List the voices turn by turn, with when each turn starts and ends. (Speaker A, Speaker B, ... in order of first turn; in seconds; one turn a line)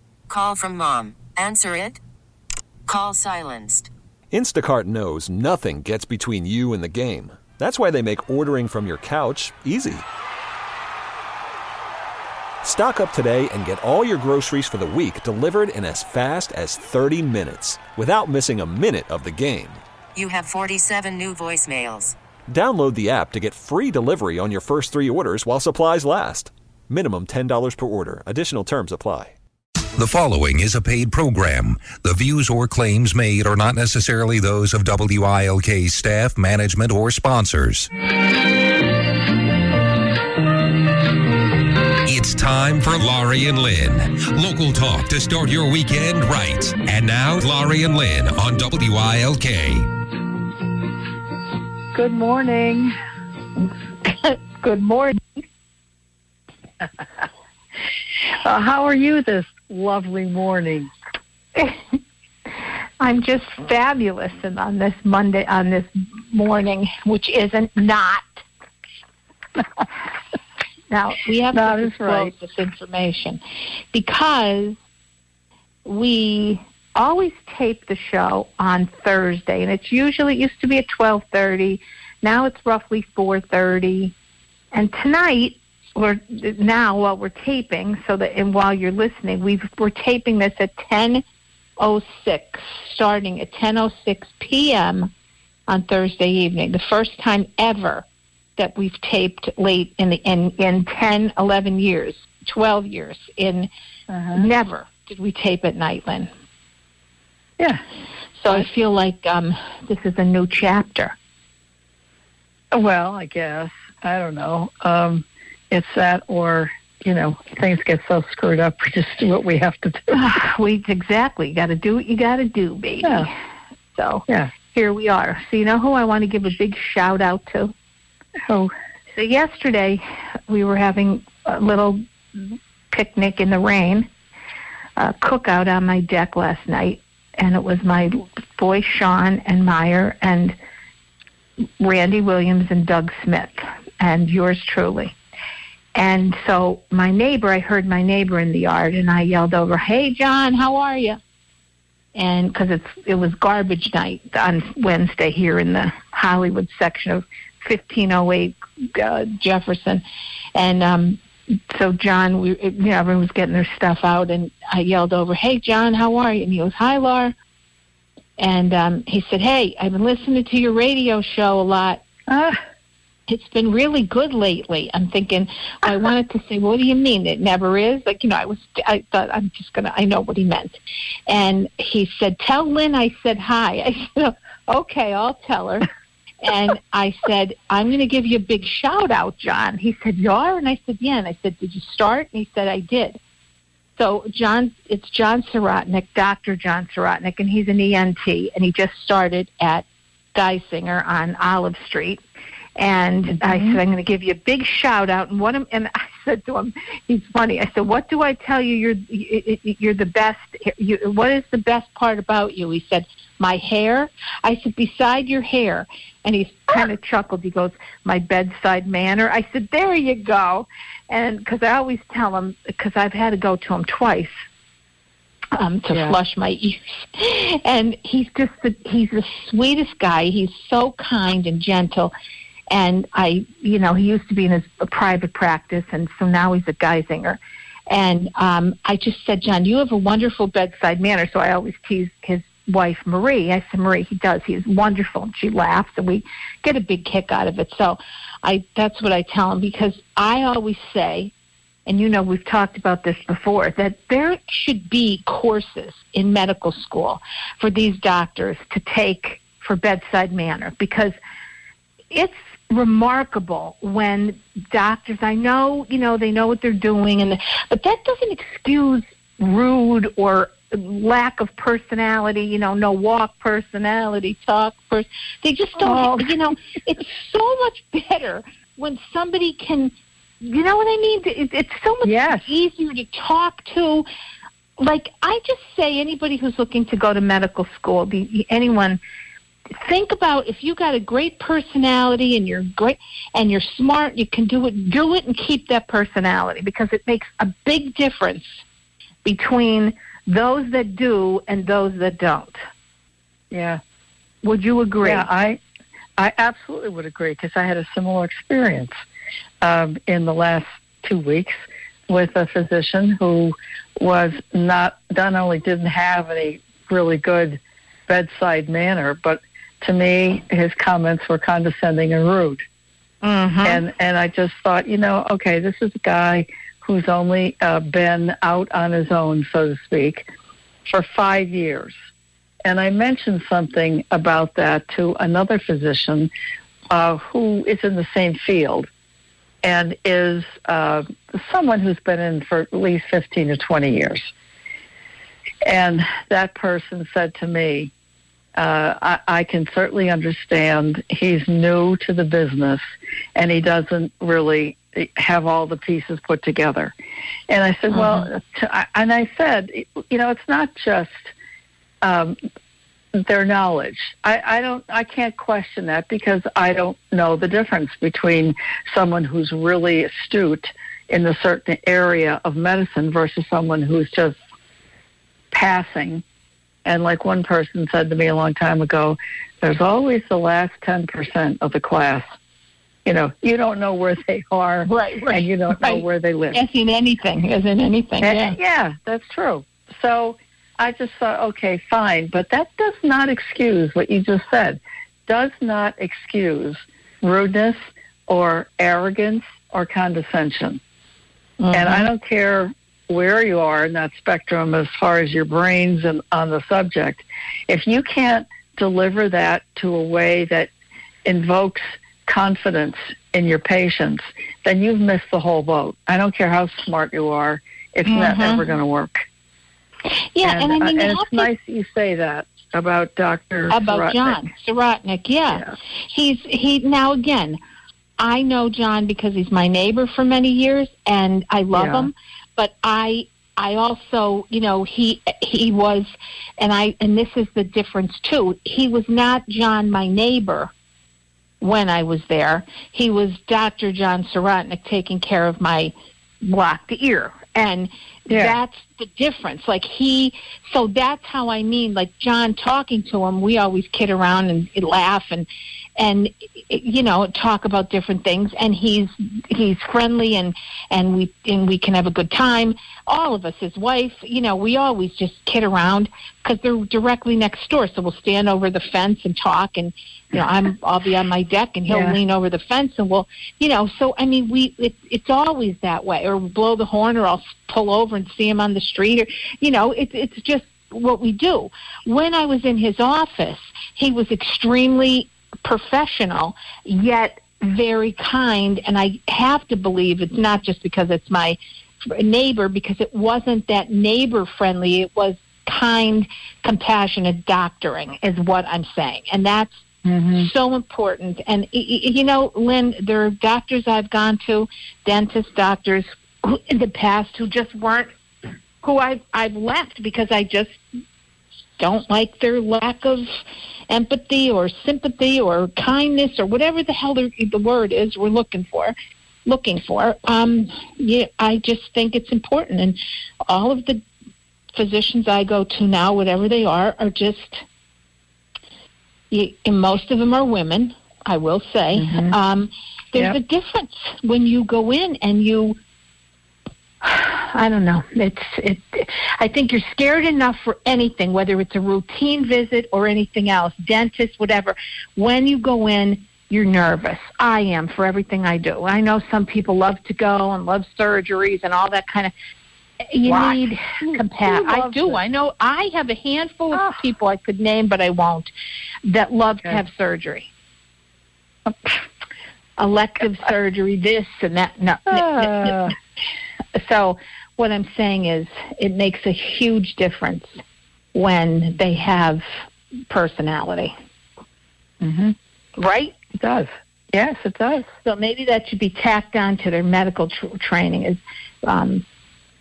Speaker A: 0.3-2.0
Speaker A: 2.9-3.9
Speaker B: 4.3-10.1
Speaker B: 12.6-19.8
Speaker A: 20.1-22.2
Speaker B: 22.5-29.4
Speaker C: 30.0-37.9
Speaker C: 42.0-49.9
Speaker D: 51.9-52.9
Speaker E: 54.1-55.2
Speaker D: 58.3-60.9
Speaker E: 63.0-68.4
Speaker E: 70.9-73.4
Speaker D: 71.5-72.3
Speaker E: 73.9-74.8
Speaker E: 75.8-84.1
Speaker E: 84.7-91.2
Speaker E: 91.8-95.1
Speaker E: 95.7-98.0
Speaker E: 98.6-103.7
Speaker D: 104.1-104.5
Speaker E: 104.3-106.3
Speaker E: 108.4-111.2
Speaker D: 112.7-120.2
Speaker E: 120.1-123.3
Speaker D: 123.0-123.3
Speaker E: 124.0-127.7
Speaker D: 128.4-128.7
Speaker E: 129.1-134.1
Speaker E: 135.0-140.6
Speaker E: 141.8-145.2
Speaker E: 145.9-151.2
Speaker E: 152.2-160.0
Speaker E: 160.6-167.3
Speaker E: 168.4-172.0
Speaker D: 172.3-172.6
Speaker E: 173.3-185.9
Speaker E: 186.4-193.2
Speaker E: 194.0-202.2
Speaker E: 202.8-224.3
Speaker D: 203.3-203.8
Speaker E: 225.6-232.1
Speaker D: 225.9-226.2
Speaker E: 232.7-251.3
Speaker E: 251.9-261.2
Speaker E: 262.1-284.1
Speaker D: 275.8-276.4
Speaker D: 282.0-282.5
Speaker E: 284.8-289.0
Speaker E: 289.8-298.6
Speaker E: 299.2-302.6
Speaker D: 303.5-303.8
Speaker E: 304.4-305.3
Speaker D: 305.0-305.6
Speaker D: 306.2-308.9
Speaker D: 309.6-322.6
Speaker E: 323.2-323.9
Speaker D: 323.6-330.3
Speaker D: 330.9-331.9
Speaker D: 332.6-336.3
Speaker D: 336.9-338.9
Speaker D: 339.6-344.3
Speaker D: 345.7-347.9
Speaker D: 348.6-352.8
Speaker D: 353.4-356.9
Speaker D: 357.5-361.3
Speaker E: 357.9-358.3
Speaker D: 362.0-362.4
Speaker D: 363.1-374.4
Speaker D: 375.5-376.2
Speaker D: 376.9-382.3
Speaker D: 383.1-386.6
Speaker E: 384.9-388.6
Speaker D: 388.2-400.8
Speaker E: 401.6-402.1
Speaker D: 401.7-410.7
Speaker D: 411.2-419.3
Speaker E: 418.1-418.6
Speaker E: 420.1-421.5
Speaker D: 420.4-424.5
Speaker E: 423.7-427.6
Speaker E: 428.2-440.7
Speaker D: 431.7-432.1
Speaker E: 441.6-455.5
Speaker D: 448.3-448.6
Speaker E: 456.0-499.8
Speaker D: 471.9-472.2
Speaker D: 500.1-500.5
Speaker E: 500.3-508.1
Speaker E: 508.8-510.8
Speaker E: 511.8-513.3
Speaker E: 513.9-519.0
Speaker E: 519.5-524.0
Speaker E: 524.8-527.6
Speaker E: 529.3-535.8
Speaker D: 532.0-532.4
Speaker E: 537.0-552.3
Speaker E: 553.1-558.5
Speaker D: 553.3-555.2
Speaker D: 556.7-557.0
Speaker E: 559.0-560.5
Speaker D: 561.7-561.9
Speaker E: 562.8-565.9
Speaker D: 565.1-565.9
Speaker E: 566.8-570.6
Speaker E: 571.1-572.5
Speaker E: 573.1-573.9
Speaker D: 575.0-575.4
Speaker E: 575.8-576.2
Speaker D: 576.4-577.9
Speaker E: 578.0-582.0